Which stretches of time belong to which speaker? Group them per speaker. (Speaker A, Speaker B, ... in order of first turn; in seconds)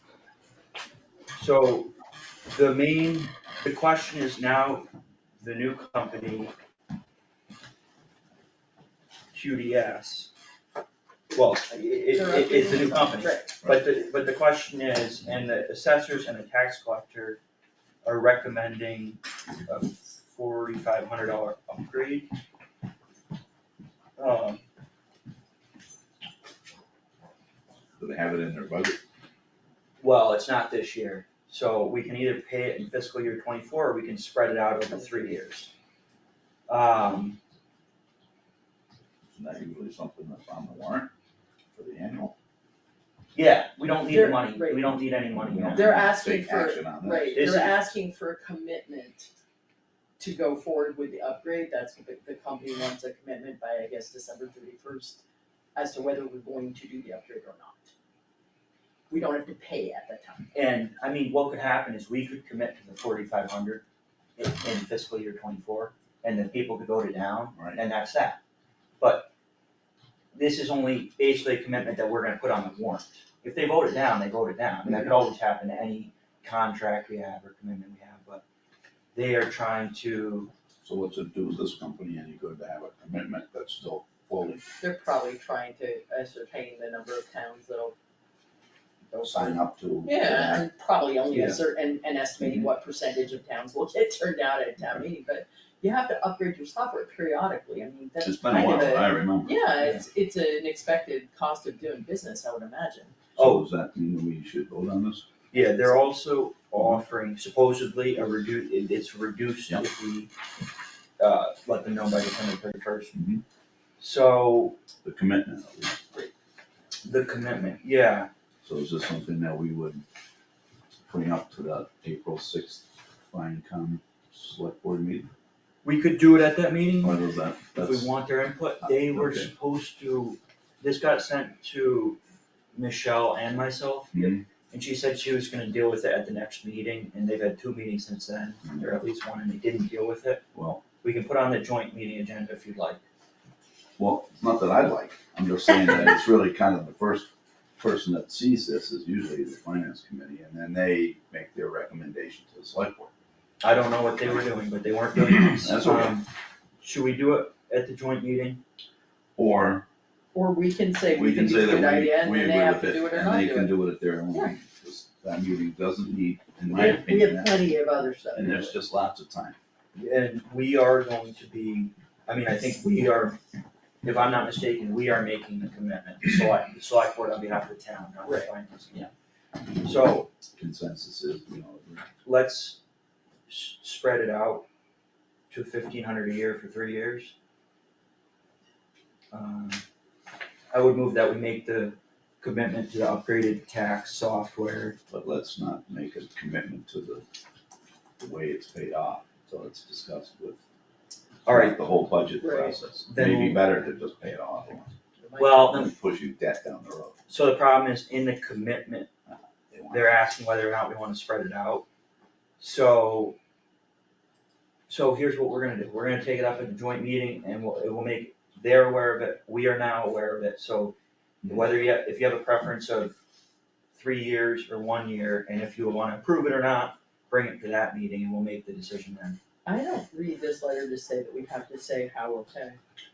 Speaker A: 1.4-1.9, 2.5-4.9, 5.4-6.5, 9.3-10.3, 11.3-17.4, 18.0-22.3, 24.2-24.6, 30.0-35.7, 36.7-37.4, 43.3-45.9, 47.3-47.7, 60.5-63.8, 64.4-68.4, 69.0-69.3, 70.3-78.4, 79.1-80.5, 89.1-89.5, 91.3-91.6, 103.4-103.6, 105.5-110.3, 111.2-113.2, 114.0-114.8, 117.0-118.3, 125.8-127.2, 127.8-132.2, 132.7-140.4, 141.0-143.0, 153.6-156.3, 156.8-158.6, 169.9-173.4, 174.0-179.1, 179.8-180.3, 182.2-182.8, 183.5-184.7, 185.5-187.3, 189.3-189.8, 190.7-195.0, 201.4-201.8, 203.1-203.6, 205.4-205.9, 207.3-209.1, 209.9-211.8, 212.6-213.3, 214.9-223.1, 223.9-229.4
Speaker B: 12.1-13.5, 44.1-45.0, 45.7-49.3, 50.2-55.2, 55.7-57.9, 59.1-60.5, 84.8-88.0, 90.0-103.2, 160.3-163.8, 164.3-164.5, 166.7-168.8, 178.2-178.5, 202.4-202.8, 205.2-205.8, 229.6-232.8
Speaker C: 28.0-29.0, 39.3-41.1, 41.7-42.3, 45.3-47.7, 67.5-67.8, 80.8-84.6, 89.2-90.6, 92.4-92.7, 98.2-99.6, 103.3-105.3, 113.1-113.4, 115.0-116.1, 118.6-120.0, 121.1-125.3, 127.0-128.1, 129.0-129.5, 134.1-134.4, 138.6-138.9, 140.5-140.8, 144.0-153.1, 155.3-156.2, 159.3-159.8, 161.1-167.7, 168.3-169.6, 180.5-182.1, 195.1-197.2, 198.2-200.6, 201.4-204.9, 205.7-207.2, 209.7-210.1